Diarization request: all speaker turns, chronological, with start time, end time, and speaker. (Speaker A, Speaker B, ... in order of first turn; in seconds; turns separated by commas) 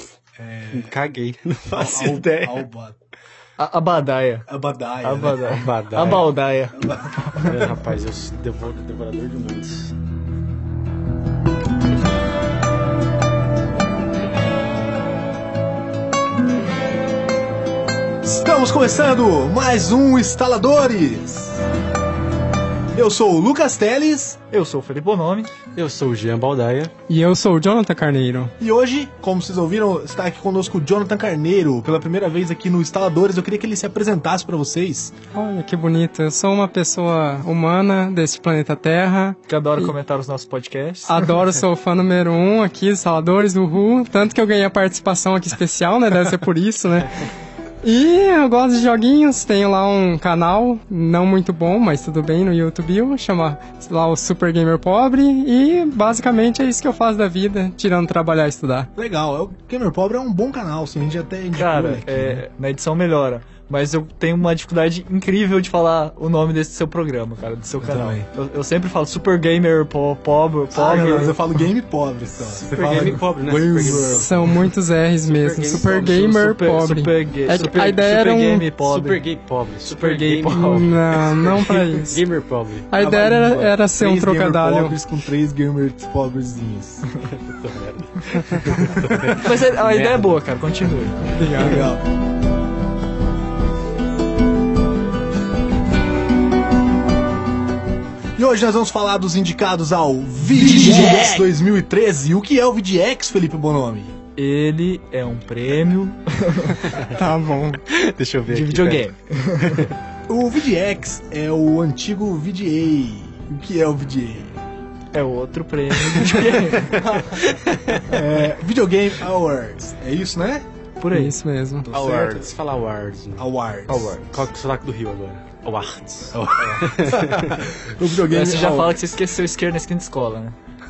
Speaker A: 0.4-0.9, Speaker B: 0.7-2.6, Speaker A: 1.8-3.0, Speaker C: 3.6-4.5, Speaker A: 4.5-5.5, Speaker C: 5.0-7.6, Speaker B: 5.5-6.3, Speaker A: 6.8-7.3, Speaker B: 7.4-9.9, Speaker A: 18.2-21.6, Speaker A: 22.9-24.4, Speaker C: 24.5-25.5, Speaker B: 25.8-26.9, Speaker D: 27.1-28.5, Speaker A: 28.6-35.1, Speaker D: 35.3-39.9, Speaker C: 39.5-41.3, Speaker D: 41.1-47.3, Speaker D: 47.8-58.9, Speaker A: 59.0-62.5, Speaker C: 61.5-71.4, Speaker A: 67.8-68.3, Speaker B: 70.7-71.4, Speaker A: 70.7-74.3, Speaker B: 72.6-74.7, Speaker D: 74.0-78.7, Speaker B: 75.2-76.2, Speaker C: 75.8-79.2, Speaker B: 77.5-78.1, Speaker B: 78.8-82.9, Speaker C: 79.9-81.0, Speaker D: 80.5-82.2, Speaker D: 82.9-85.0, Speaker A: 83.0-87.1, Speaker B: 87.2-90.9, Speaker A: 88.7-89.4, Speaker C: 89.3-91.5, Speaker D: 91.3-91.9, Speaker A: 91.5-92.0, Speaker A: 98.4-104.1, Speaker C: 100.6-101.4, Speaker C: 104.4-106.8, Speaker B: 106.9-107.2, Speaker D: 107.1-107.8, Speaker B: 107.9-109.1, Speaker C: 108.5-109.9, Speaker B: 109.6-109.9, Speaker A: 110.3-114.5, Speaker C: 115.1-117.0, Speaker A: 116.2-117.2, Speaker B: 116.8-118.2, Speaker A: 118.1-120.7, Speaker C: 121.0-121.4, Speaker D: 121.1-121.9, Speaker A: 121.8-122.4, Speaker B: 121.9-123.5, Speaker C: 122.0-122.5, Speaker A: 123.4-124.2, Speaker C: 123.9-124.4, Speaker B: 124.2-127.8, Speaker A: 126.3-129.0, Speaker C: 128.3-130.6